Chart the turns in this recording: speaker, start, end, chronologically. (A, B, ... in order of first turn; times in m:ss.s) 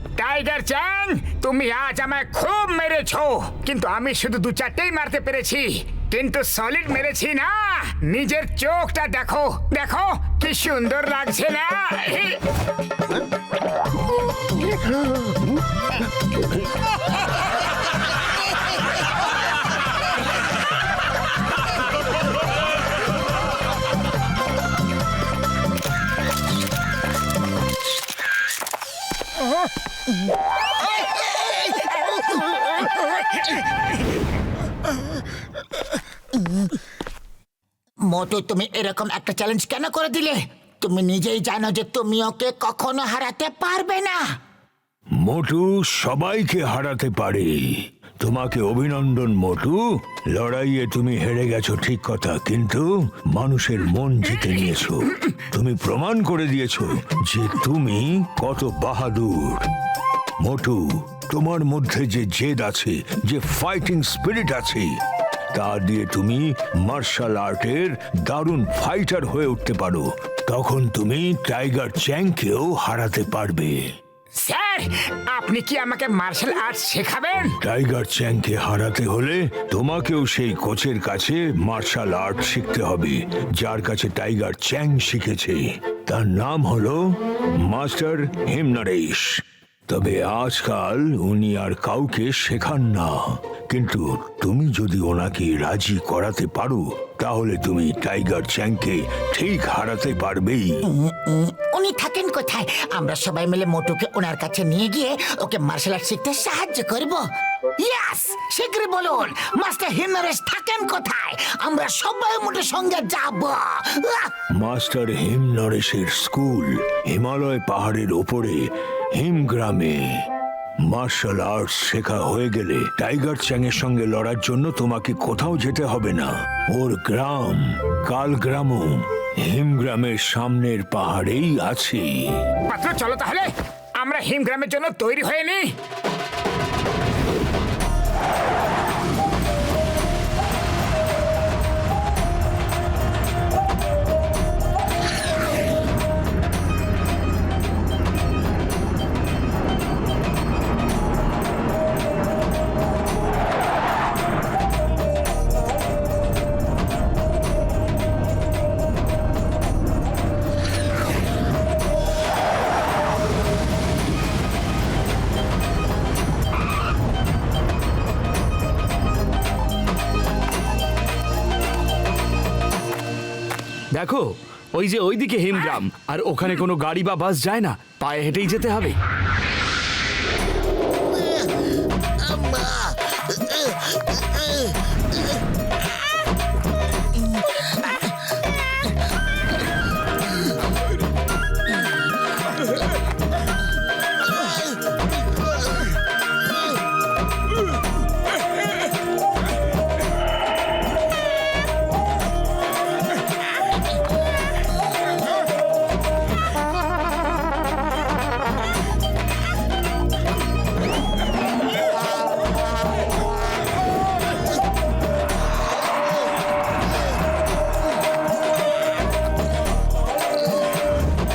0:00.2-0:12.4 A
0:38.0-0:44.2 B
0:45.2-0:59.7 C
1:00.4-1:05.0 C
1:05.5-1:13.8 C
1:14.4-1:17.6 A
1:17.6-1:40.8 C
1:40.8-1:47.2 B
1:47.8-1:54.3 B
1:54.5-2:00.2 C
2:00.8-2:12.3 C
2:12.7-2:15.7 A
2:53.9-2:59.0 D